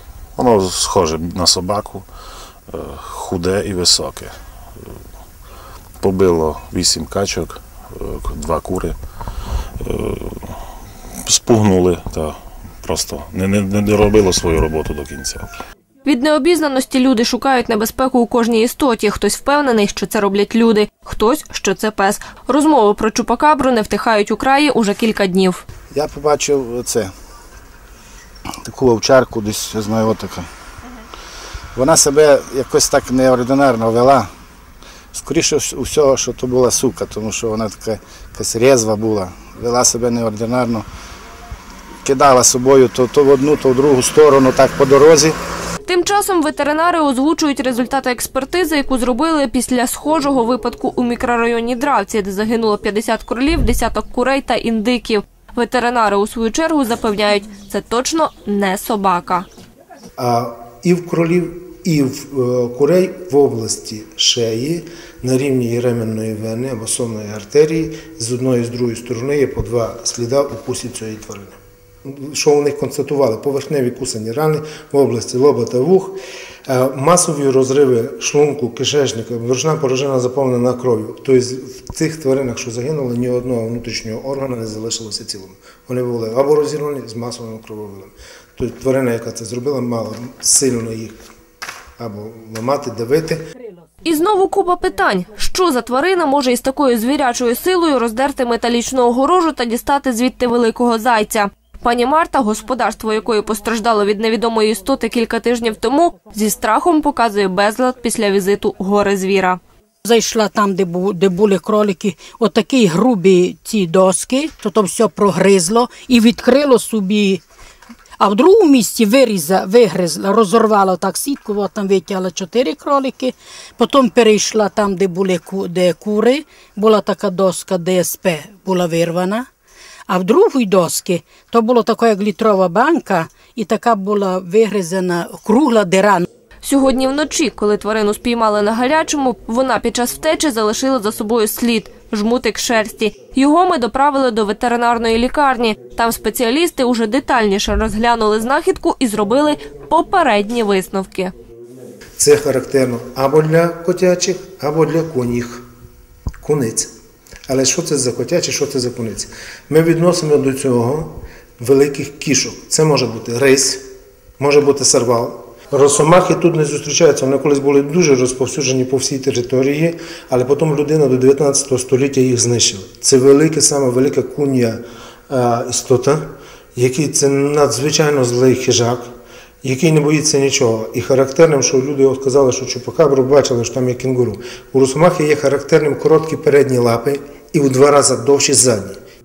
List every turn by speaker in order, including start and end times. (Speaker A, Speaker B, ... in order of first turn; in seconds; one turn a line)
Speaker A: 0.4-2.0
Speaker A: 2.7-4.3
Speaker A: 6.0-9.0
Speaker A: 9.8-10.6
Speaker A: 11.2-15.6
Speaker B: 16.1-25.6
Speaker C: 25.9-27.1
Speaker C: 28.6-30.5
Speaker C: 31.8-34.3
Speaker C: 35.1-40.9
Speaker C: 42.0-45.4
Speaker B: 45.9-59.5
Speaker D: 60.2-91.2
Speaker D: 92.0-93.4
Speaker B: 94.0-109.6
Speaker E: 110.0-117.4
Speaker E: 118.2-129.5
Speaker E: 130.1-136.3
Speaker B: 136.6-151.3
Speaker D: 152.2-155.6
Speaker D: 156.4-156.9
Speaker D: 157.5-163.8
Speaker D: 164.4-176.2
Speaker D: 176.8-179.1
Speaker D: 179.6-189.0